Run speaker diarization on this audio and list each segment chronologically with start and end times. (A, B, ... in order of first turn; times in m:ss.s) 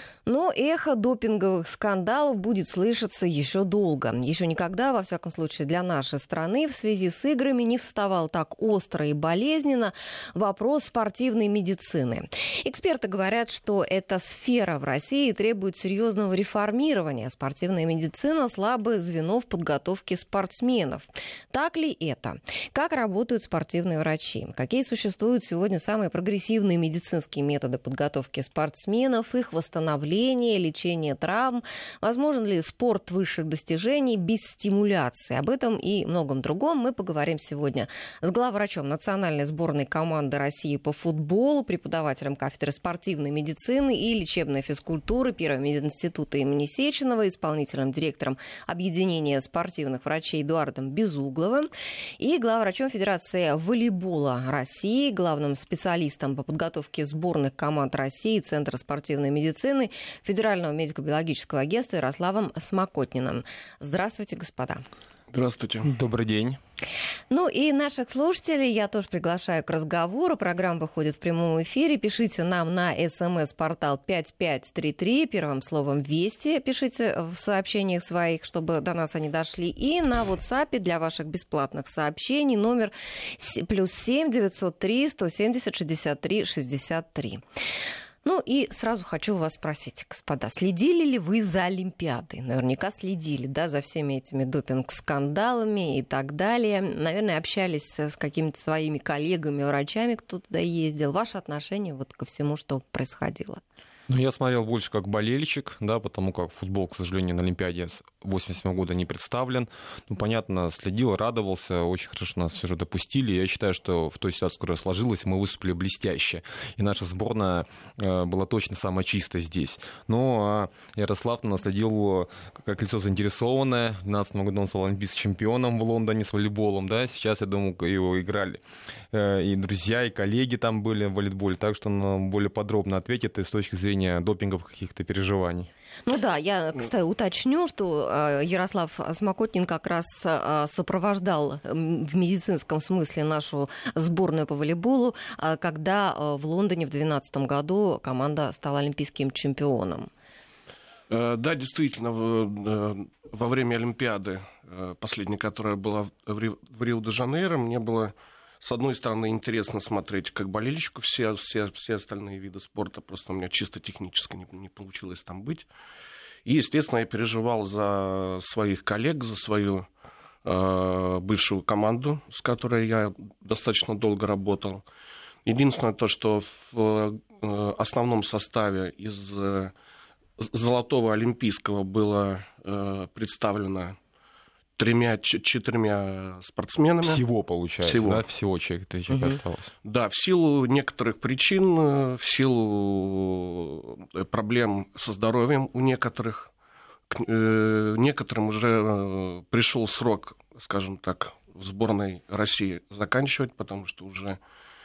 0:00.2-1:04.8 A
1:05.3-1:05.9 B
1:05.8-1:06.6 C
1:07.3-1:27.4 A
1:28.2-1:43.6 A
1:44.1-2:08.6 C
2:09.1-2:15.7 C
2:16.0-2:30.1 A
2:31.1-2:45.6 B
2:46.4-2:49.9 B
2:50.4-2:54.8 B
2:55.4-2:59.7 B
3:00.4-3:04.0 B
3:04.8-3:07.2 B
3:07.0-3:09.7 C
3:07.8-3:08.2 B
3:09.8-3:16.5 B
3:17.1-3:24.4 B